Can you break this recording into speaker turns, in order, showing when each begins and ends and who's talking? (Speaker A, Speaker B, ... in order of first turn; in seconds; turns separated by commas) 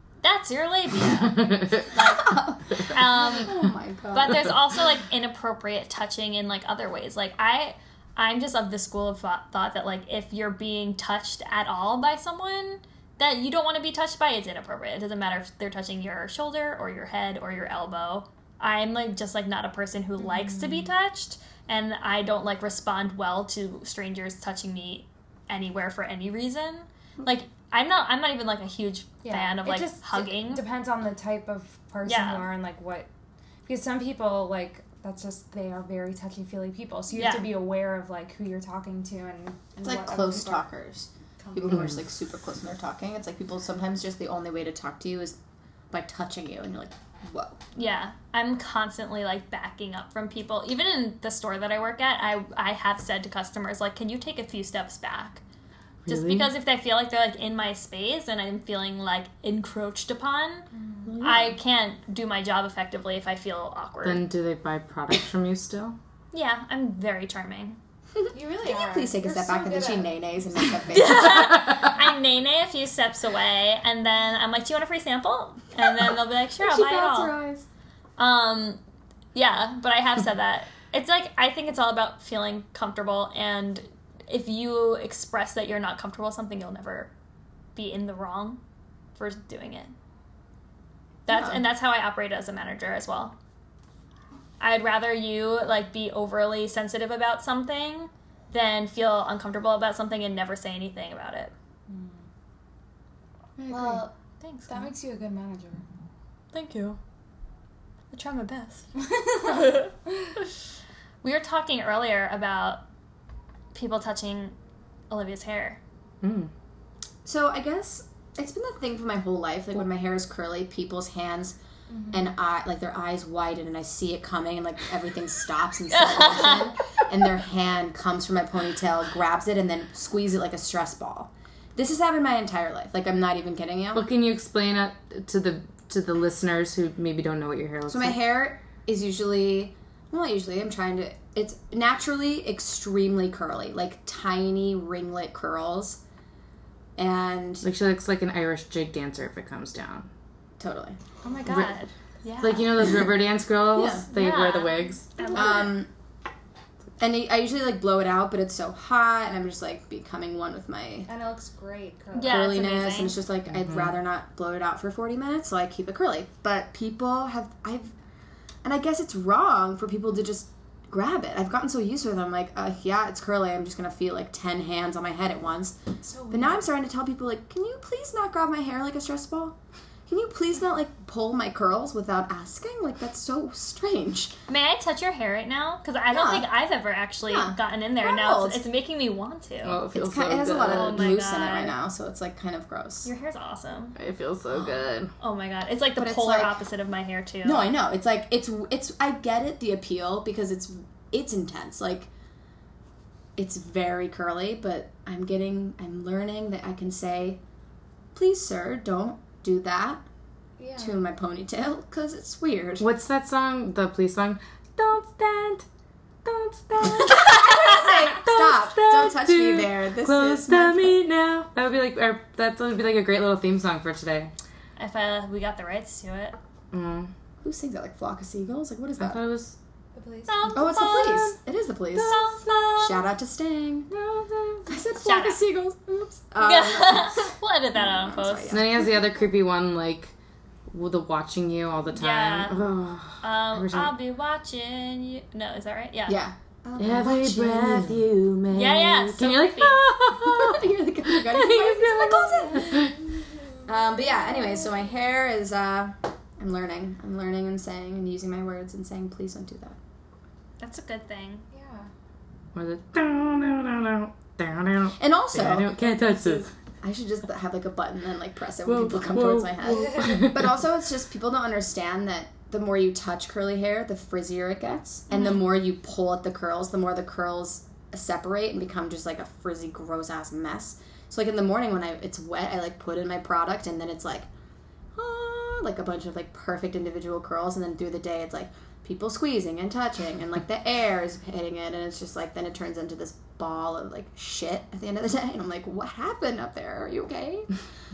Speaker A: 0.2-3.6, Speaker B: 1.2-1.9, Speaker C: 2.0-4.5, Speaker A: 4.1-30.6, Speaker D: 20.3-20.8, Speaker D: 29.2-33.1, Speaker A: 32.0-32.5, Speaker D: 33.6-40.7, Speaker A: 37.1-37.5, Speaker C: 39.8-45.4, Speaker D: 41.4-41.7, Speaker C: 45.9-47.6, Speaker A: 47.7-55.4, Speaker B: 56.1-56.5, Speaker A: 56.1-60.7, Speaker D: 60.7-61.1, Speaker B: 61.1-61.5, Speaker A: 61.2-64.2, Speaker B: 64.0-66.0, Speaker A: 66.3-67.8, Speaker D: 68.3-70.1, Speaker C: 68.6-71.5, Speaker A: 70.9-77.3, Speaker C: 76.6-77.7, Speaker A: 78.2-78.8, Speaker A: 79.3-87.1, Speaker A: 87.7-88.6, Speaker A: 89.1-89.9, Speaker A: 91.3-93.3, Speaker C: 91.3-91.6, Speaker A: 94.6-101.5, Speaker D: 101.9-102.2, Speaker D: 103.7-104.1, Speaker A: 104.4-104.9, Speaker D: 104.7-105.8, Speaker B: 106.5-107.0, Speaker A: 108.1-108.9, Speaker D: 109.1-109.9, Speaker A: 111.2-112.8, Speaker A: 113.7-114.5, Speaker A: 115.1-115.8, Speaker B: 116.2-116.5, Speaker C: 117.2-121.6, Speaker D: 121.9-122.2, Speaker C: 122.1-134.1, Speaker A: 125.9-126.7, Speaker B: 133.9-138.2, Speaker C: 137.9-146.0, Speaker C: 147.0-147.7, Speaker B: 147.6-150.1, Speaker C: 150.6-151.0, Speaker A: 151.2-152.7, Speaker B: 152.4-155.1, Speaker C: 153.7-154.1, Speaker A: 154.1-155.8, Speaker C: 155.3-155.9, Speaker C: 157.0-161.1, Speaker D: 161.1-162.5, Speaker A: 162.1-163.2, Speaker C: 162.2-167.9, Speaker B: 163.6-163.9, Speaker C: 168.6-175.8, Speaker D: 176.0-176.6, Speaker C: 176.3-179.6, Speaker C: 180.1-184.3, Speaker A: 184.5-189.8, Speaker C: 186.1-186.5, Speaker C: 187.2-188.6, Speaker B: 189.6-191.2, Speaker C: 189.9-193.1, Speaker A: 190.6-191.7, Speaker A: 193.0-193.9, Speaker B: 194.0-195.1, Speaker A: 195.2-197.7, Speaker C: 196.0-196.6, Speaker C: 197.4-202.1, Speaker C: 203.4-207.4, Speaker C: 208.1-210.0, Speaker D: 210.6-211.0, Speaker C: 210.8-212.9, Speaker B: 212.8-215.7, Speaker B: 216.2-224.3, Speaker C: 216.9-220.9, Speaker A: 224.8-226.4, Speaker B: 226.7-227.1, Speaker C: 227.4-229.2, Speaker B: 229.0-229.6, Speaker D: 229.9-230.5, Speaker A: 230.3-231.3, Speaker C: 230.5-232.2, Speaker A: 231.9-233.0, Speaker C: 232.8-233.9, Speaker B: 233.9-234.7, Speaker C: 234.7-238.9, Speaker A: 235.0-235.4, Speaker A: 236.4-238.6, Speaker B: 238.5-240.1, Speaker B: 240.7-243.9, Speaker A: 241.9-242.6, Speaker A: 243.2-246.2, Speaker C: 246.1-248.0, Speaker B: 246.8-253.1, Speaker A: 248.5-249.9, Speaker C: 250.2-252.9, Speaker C: 253.7-259.8, Speaker A: 260.6-261.4, Speaker D: 261.5-261.9, Speaker B: 262.5-266.5, Speaker C: 265.0-284.3, Speaker B: 268.6-270.6, Speaker A: 275.1-275.4, Speaker C: 284.9-297.5